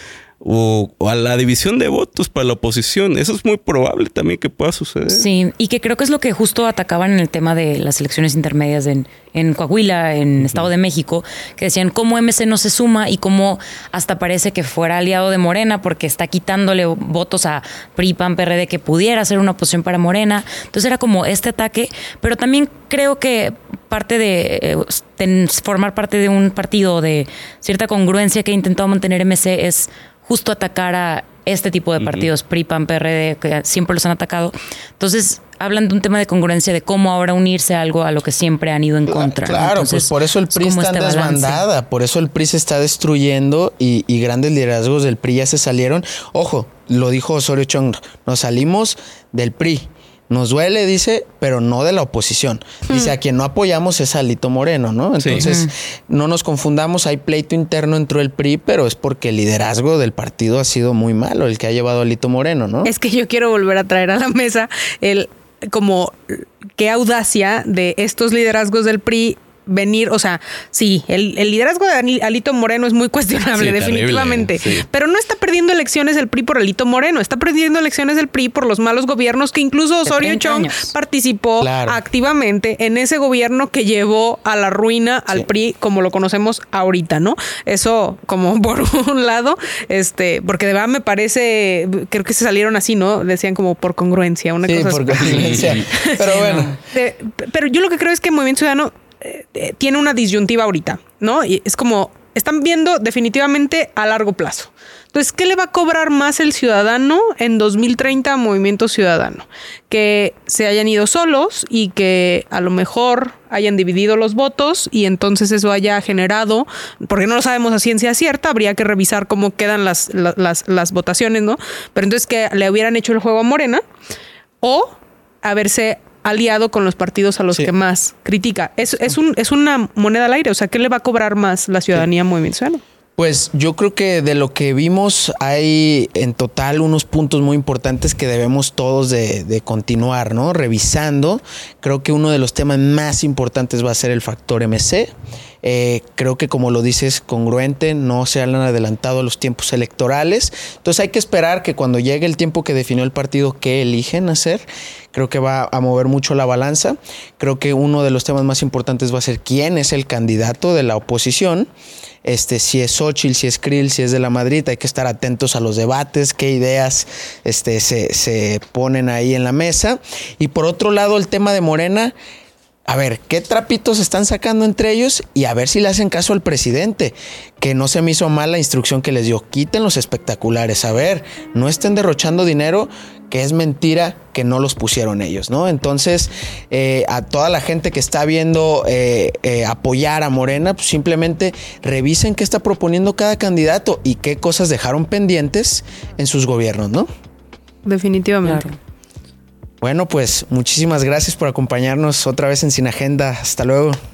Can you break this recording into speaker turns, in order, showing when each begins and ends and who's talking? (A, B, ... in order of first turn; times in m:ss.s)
0:00.4-0:05.2 A
0:05.1-0:41.6 B
0:10.4-0:10.6 A
0:32.0-0:32.3 A
0:39.1-1:02.9 C
0:55.3-0:55.7 B
1:02.8-2:03.8 D
1:13.5-1:14.8 A
1:20.0-1:20.9 B
1:21.6-1:22.0 C
1:34.6-1:36.8 C
1:35.2-1:35.8 A
1:36.3-1:36.7 B
2:04.6-2:12.8 D
2:13.2-2:25.1 C
2:25.6-2:41.7 C
2:42.2-2:52.1 C
2:52.9-3:17.1 C
3:17.8-3:18.6 D
3:18.4-3:18.8 B
3:19.8-3:24.0 C